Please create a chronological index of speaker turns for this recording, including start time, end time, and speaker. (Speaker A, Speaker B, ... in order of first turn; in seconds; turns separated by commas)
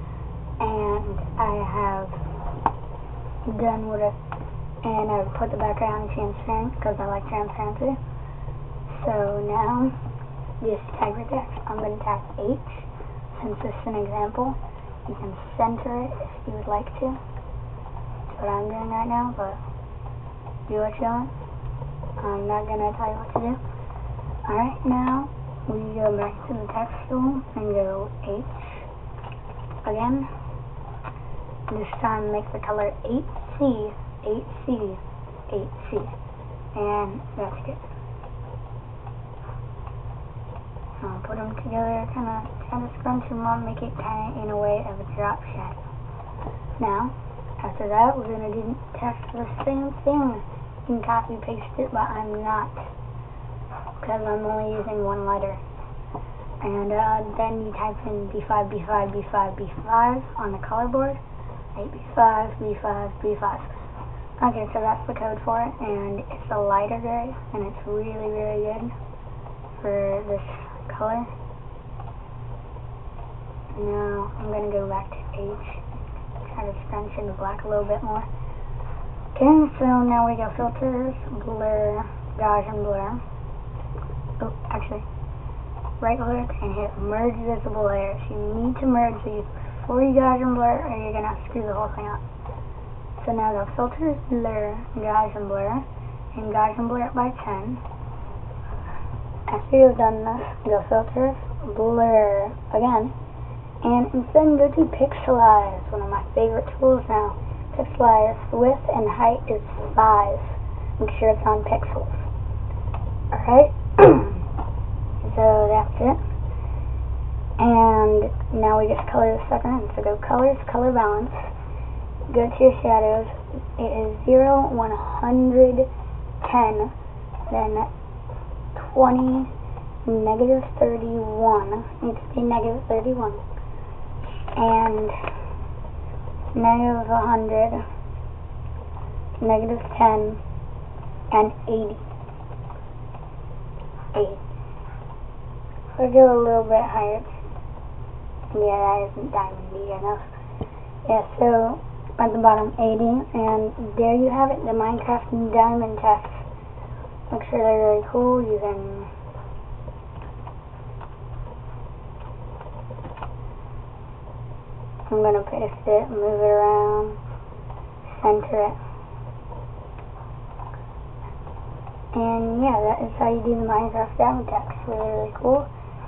Speaker A: 0.6-2.2, Speaker A: 3.5-4.2, Speaker A: 4.8-8.0, Speaker A: 8.9-9.9, Speaker A: 10.6-17.2, Speaker A: 18.3-19.6, Speaker A: 20.7-21.3, Speaker A: 22.2-23.6, Speaker A: 24.4-28.9, Speaker A: 29.8-30.3, Speaker A: 31.7-36.1, Speaker A: 36.7-37.8, Speaker A: 41.0-45.8, Speaker A: 46.8-52.9, Speaker A: 54.0-55.6, Speaker A: 56.6-61.2, Speaker A: 61.7-63.7, Speaker A: 64.4-68.9, Speaker A: 69.8-71.3, Speaker A: 73.7-75.8, Speaker A: 76.4-78.3, Speaker A: 79.3-83.2, Speaker A: 84.4-85.1, Speaker A: 86.0-92.2, Speaker A: 93.2-97.8, Speaker A: 99.5-103.1, Speaker A: 103.8-112.3, Speaker A: 113.3-114.4, Speaker A: 115.2-116.2, Speaker A: 117.6-121.5, Speaker A: 122.3-125.9, Speaker A: 126.4-126.9, Speaker A: 127.5-127.9, Speaker A: 128.7-129.5, Speaker A: 130.0-133.4, Speaker A: 134.5-135.2, Speaker A: 136.5-137.8, Speaker A: 139.4-140.4, Speaker A: 141.3-142.0, Speaker A: 144.1-144.4, Speaker A: 146.0-147.4, Speaker A: 148.5-150.3, Speaker A: 151.1-156.5, Speaker A: 157.3-159.1, Speaker A: 165.1-167.2, Speaker A: 168.1-168.8, Speaker A: 172.1-175.7